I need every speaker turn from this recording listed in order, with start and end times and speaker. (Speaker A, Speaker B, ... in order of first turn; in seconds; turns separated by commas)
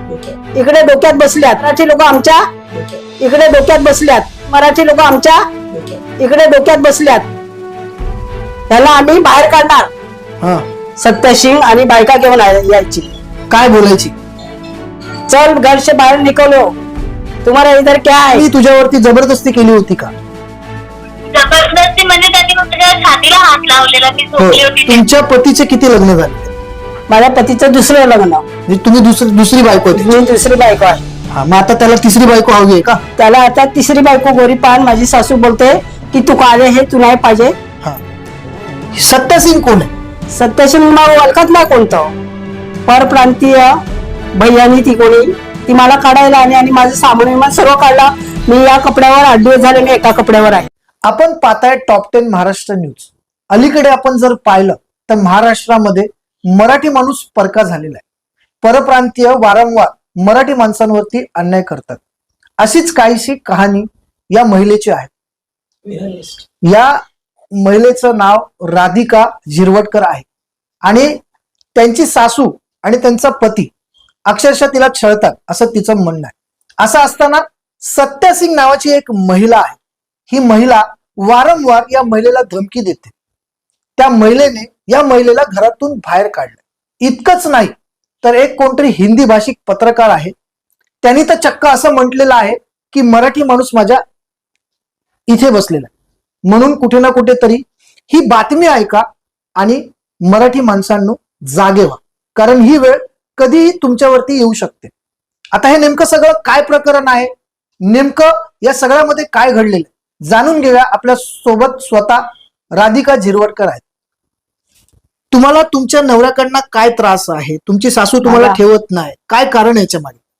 Speaker A: 0.5-2.5, Speaker A: 3.2-5.4, Speaker A: 6.2-7.3, Speaker A: 8.7-9.9, Speaker B: 10.4-10.7, Speaker A: 11.0-13.1, Speaker B: 13.5-14.1, Speaker A: 15.3-16.7, Speaker A: 17.4-18.4, Speaker B: 18.3-20.1, Speaker C: 21.3-25.0, Speaker B: 24.4-26.5, Speaker A: 27.1-28.4, Speaker B: 28.7-30.1, Speaker A: 29.9-31.0, Speaker B: 31.3-33.0, Speaker A: 33.2-37.5, Speaker B: 38.9-39.9, Speaker A: 40.3-42.1, Speaker A: 42.9-43.7, Speaker A: 44.3-50.7, Speaker B: 51.0-58.0, Speaker B: 58.6-62.0, Speaker B: 62.6-65.1, Speaker B: 66.6-67.0, Speaker B: 67.6-70.2, Speaker B: 70.8-71.2, Speaker B: 71.7-73.7, Speaker B: 74.3-79.8, Speaker B: 80.3-83.1, Speaker B: 84.0-90.3, Speaker B: 91.0-94.0, Speaker B: 95.3-95.9, Speaker B: 96.5-99.0, Speaker B: 99.6-104.9, Speaker B: 105.5-107.3, Speaker B: 107.8-113.8, Speaker B: 115.3-120.2, Speaker A: 118.2-118.6